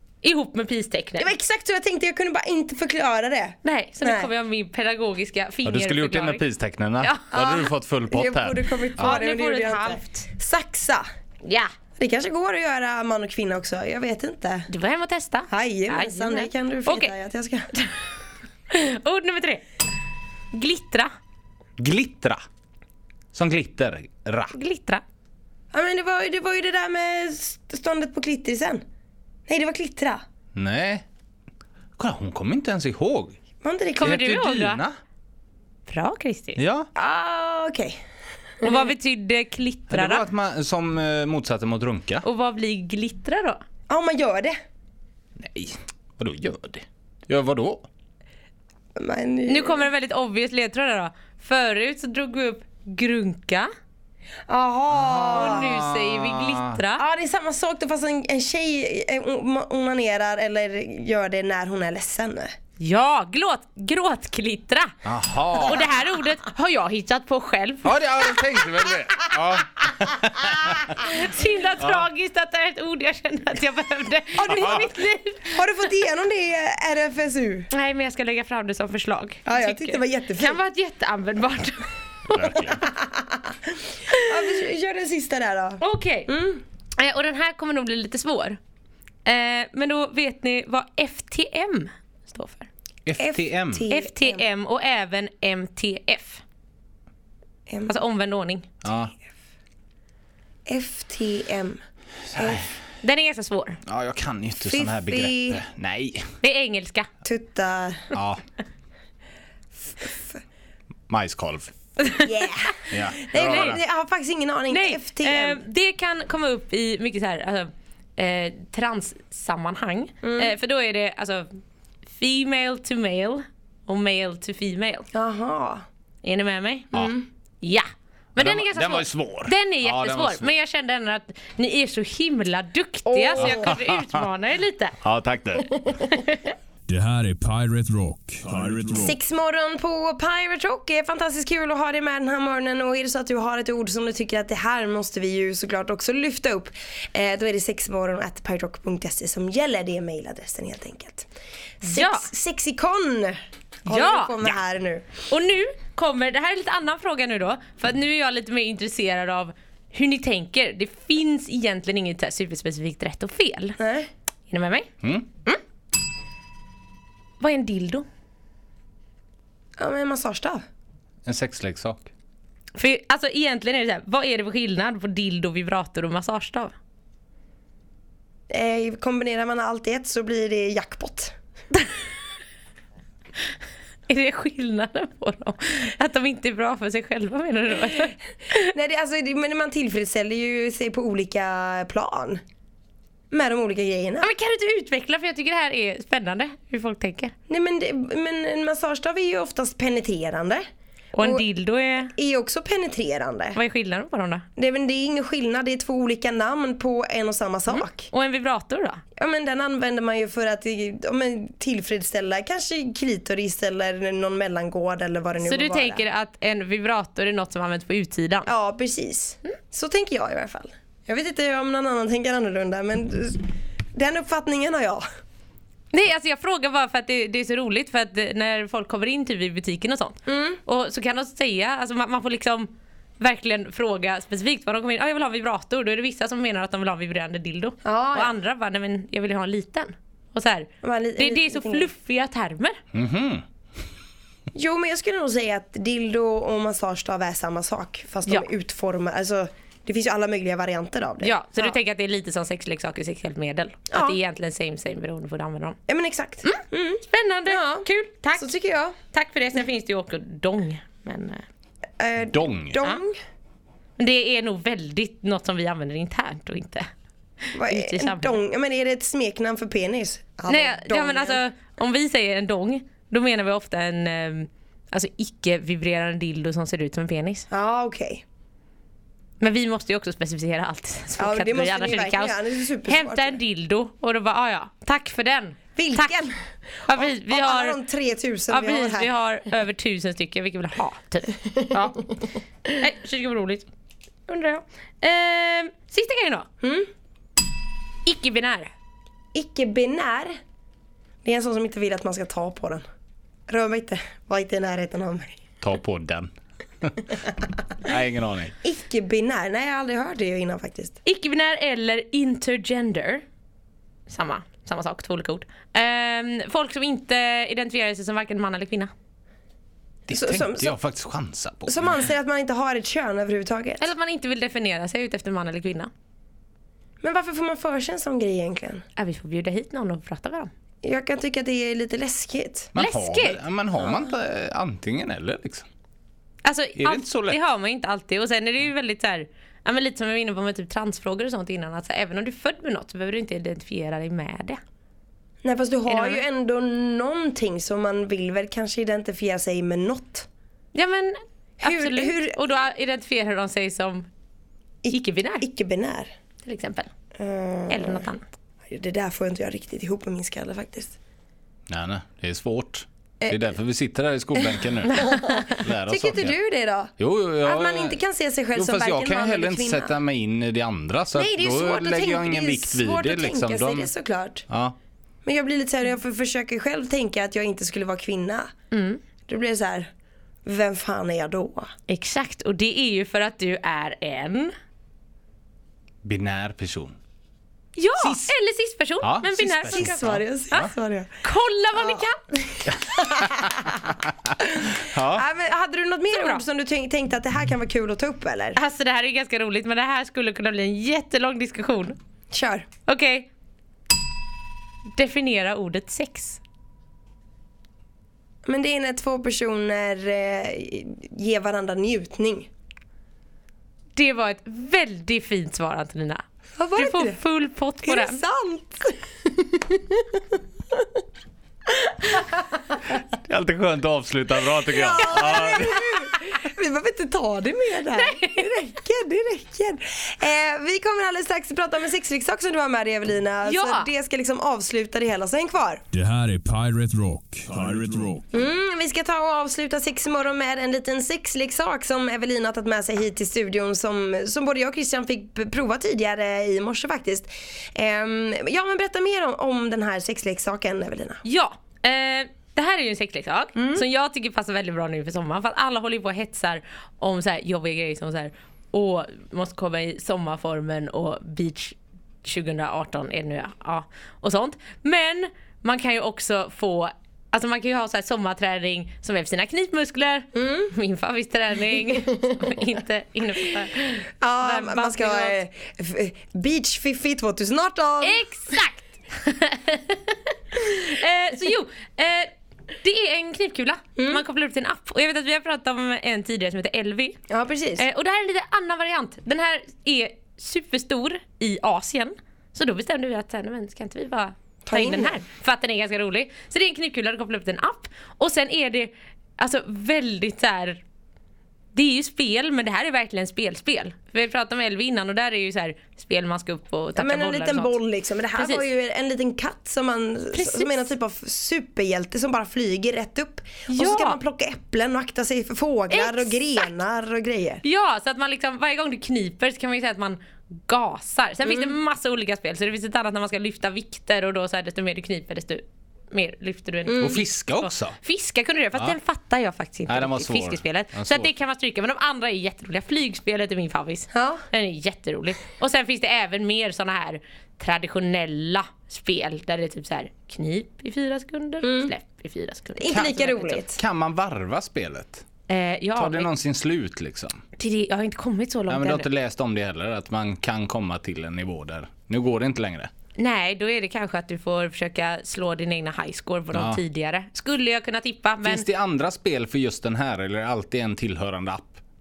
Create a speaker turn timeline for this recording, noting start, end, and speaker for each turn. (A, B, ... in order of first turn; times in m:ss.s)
0:00.2-0:01.3 A
0:01.2-0:04.3 B
0:03.6-0:06.4 A
0:05.6-0:09.2 C
0:07.0-0:07.2 A
0:07.3-0:11.0 B
0:09.0-0:10.3 A
0:11.4-0:11.7 A
0:12.0-0:14.7 B
0:14.7-0:17.1 A
0:15.5-0:17.7 B
0:18.7-0:19.6 A
0:20.5-0:21.1 A
0:21.8-0:22.4 C
0:23.3-0:24.5 C
0:24.5-0:25.0 A
0:25.7-0:28.8 B
0:29.5-0:30.2 B
0:30.5-0:31.0 C
0:32.0-0:33.4 C
0:33.6-0:34.2 B
0:34.0-0:34.8 A
0:34.0-0:35.0 C
0:35.9-0:36.6 A
0:36.6-0:36.9 C
0:36.9-0:38.0 B
0:38.6-0:40.2 A
0:39.9-0:42.2 C
0:42.2-0:43.6 A
0:43.9-0:44.6 B
0:45.4-0:47.9 C
0:49.0-0:49.9 B
0:49.4-0:53.7 A
0:54.5-0:55.7 B
0:54.9-0:56.8 C
0:55.3-0:57.0 A
0:57.0-1:02.5 B
1:02.8-1:04.9 A
1:05.0-1:06.0 C
1:05.6-1:08.0 A
1:07.8-1:11.0 C
1:10.9-1:15.6 A
1:11.8-1:12.1 C
1:14.4-1:14.9 B
1:14.5-1:14.9 C
1:15.5-1:17.7 B
1:17.7-1:22.5 A
1:19.4-1:20.6 B
1:22.3-1:22.8 C
1:22.7-1:26.6 B
1:24.1-1:24.6 A
1:25.8-1:26.3 A
1:27.0-1:28.6 A
1:29.2-1:32.7 A
1:33.0-1:33.9 C
1:33.2-1:34.4 B
1:33.9-1:36.4 A
1:37.9-1:38.6 A
1:38.8-1:39.1 C
1:40.7-1:41.8 B
1:42.3-1:42.6 B
1:42.4-1:42.6 C
1:43.0-1:43.8 A
1:43.8-1:46.3 C
1:44.6-1:45.6 B
1:46.4-1:47.1 A
1:47.2-1:48.1 B
1:48.1-1:48.4 C
1:50.0-1:50.4 B
1:51.1-1:51.7 C
1:52.0-1:52.3 A
1:52.2-1:55.6 B
1:52.9-1:53.8 C
1:53.3-1:53.8 A
1:54.7-2:01.6 A
2:00.2-2:00.5 B
2:02.2-2:05.1 A
2:05.1-2:05.8 B
2:06.2-2:14.9 A
2:06.9-2:07.2 B
2:08.4-2:10.5 C
2:13.0-2:13.7 B
2:13.4-2:14.2 C
2:15.0-2:15.7 C
2:16.1-2:16.5 A
2:16.9-2:19.2 D
2:19.0-2:31.3 B
2:31.8-2:35.1 B
2:31.8-2:32.3 A
2:33.9-2:34.4 A
2:35.3-2:43.8 A
2:43.8-2:44.1 B
2:44.5-2:44.9 A
2:47.4-2:48.1 A
2:49.8-2:50.6 B
2:51.2-2:52.1 C
2:52.8-2:56.7 A
2:58.5-3:01.3 B
3:04.1-3:08.7 A
3:08.6-3:12.4 B
3:13.3-3:14.3 B
3:14.2-3:17.3 A
3:17.5-3:20.6 B
3:21.1-3:22.1 A
3:22.1-3:23.6 B
3:23.5-3:24.5 A
3:24.6-3:28.1 B
3:27.7-3:29.0 A
3:29.2-3:36.0 B
3:35.4-3:38.5 A
3:38.5-3:45.1 B
3:45.9-4:02.8 A
3:50.3-3:50.6 B
3:57.8-3:58.4 B
4:00.8-4:01.9 B
4:02.9-4:03.4 C
4:04.5-4:11.7 B
4:11.2-4:15.8 A
4:13.9-4:14.2 B
4:15.9-4:19.0 B
4:16.4-4:21.4 A
4:22.0-4:23.2 B
4:22.3-4:22.8 C
4:24.0-4:26.9 A
4:27.4-4:28.4 A
4:27.6-4:31.4 B
4:30.5-4:37.5 A
4:37.5-4:38.2 B
4:39.4-4:46.2 A
4:41.2-4:43.4 B
4:45.8-4:49.1 B
4:46.9-4:47.8 A
4:48.5-4:52.0 A
4:52.7-4:53.7 A
4:54.3-4:56.5 A
4:56.6-4:56.9 B
4:58.0-4:58.7 A
4:59.3-5:00.3 B
5:01.2-5:02.8 B
5:03.5-5:05.4 B
5:05.6-5:06.3 C
5:07.8-5:08.5 C
5:08.6-5:11.0 B
5:11.0-5:13.2 A
5:14.1-5:18.9 A
5:20.1-5:20.7 B
5:20.1-5:22.1 C
5:21.7-5:23.9 B
5:23.8-5:25.9 A
5:27.0-5:28.8 B
5:29.0-5:30.5 A
5:30.8-5:32.7 B
5:32.7-5:35.7 C
5:32.8-5:33.4 A
5:33.8-5:34.1 B
5:36.4-5:44.6 A
5:36.8-5:37.4 C
5:45.4-5:50.3 B
5:45.9-5:46.2 A
5:50.7-5:54.1 A
5:51.6-5:52.4 B
5:54.8-5:56.1 B
5:54.9-5:55.4 A
5:56.4-5:56.9 A
5:57.2-5:58.0 B
5:57.7-5:58.3 A
5:58.7-6:01.0 B
6:01.7-6:06.4 C
6:03.2-6:03.5 B
6:04.4-6:09.9 B
6:04.9-6:05.4 A
6:07.0-6:08.0 C
6:08.5-6:13.9 C
6:11.1-6:14.4 B
6:14.5-6:14.7 C
6:15.2-6:18.5 B
6:18.7-6:19.0 A
6:19.2-6:19.9 B
6:20.4-6:21.7 B
6:21.9-6:24.5 A
6:26.0-6:27.0 C
6:27.8-6:32.2 A
6:28.0-6:28.3 C
6:29.0-6:30.7 C
6:29.6-6:31.1 B
6:31.8-6:38.6 B
6:32.7-6:33.7 C
6:34.7-6:35.2 C
6:36.1-6:36.4 A
6:38.5-6:42.0 A
6:42.3-6:42.7 B
6:42.8-6:43.3 A
6:45.0-6:46.4 A
6:48.4-6:52.5 B
6:53.9-6:56.2 A
6:56.6-6:57.2 B
6:56.7-6:58.2 A
6:57.8-7:00.9 B
7:01.8-7:02.4 B
7:03.2-7:06.1 C
7:04.7-7:15.8 B
7:07.9-7:08.5 A
7:13.4-7:13.9 A
7:15.9-7:18.2 D
7:18.3-7:31.2 B
7:31.2-7:55.4 A
7:33.6-7:33.8 B
7:50.3-7:50.7 B
7:54.2-7:58.2 B
7:58.0-8:07.2 A
8:04.0-8:04.2 B
8:07.3-8:07.8 B
8:07.8-8:20.8 A
8:14.6-8:15.2 B
8:21.7-8:27.8 A
8:27.0-8:37.6 B
8:28.4-8:28.6 A
8:30.3-8:30.9 A
8:33.7-8:34.2 A
8:35.9-8:36.7 A
8:37.6-9:03.6 A
8:46.8-8:47.2 B
8:47.0-8:48.0 C
8:49.9-8:51.3 C
8:54.1-8:54.4 B
9:01.6-9:01.9 B
9:02.8-9:03.8 B
9:02.9-9:05.2 C
9:05.5-9:06.3 A
9:06.0-9:07.4 C
9:07.6-9:09.1 A
9:08.7-9:12.9 C
9:13.2-9:18.6 A
9:16.5-9:16.8 C
9:18.4-9:21.8 C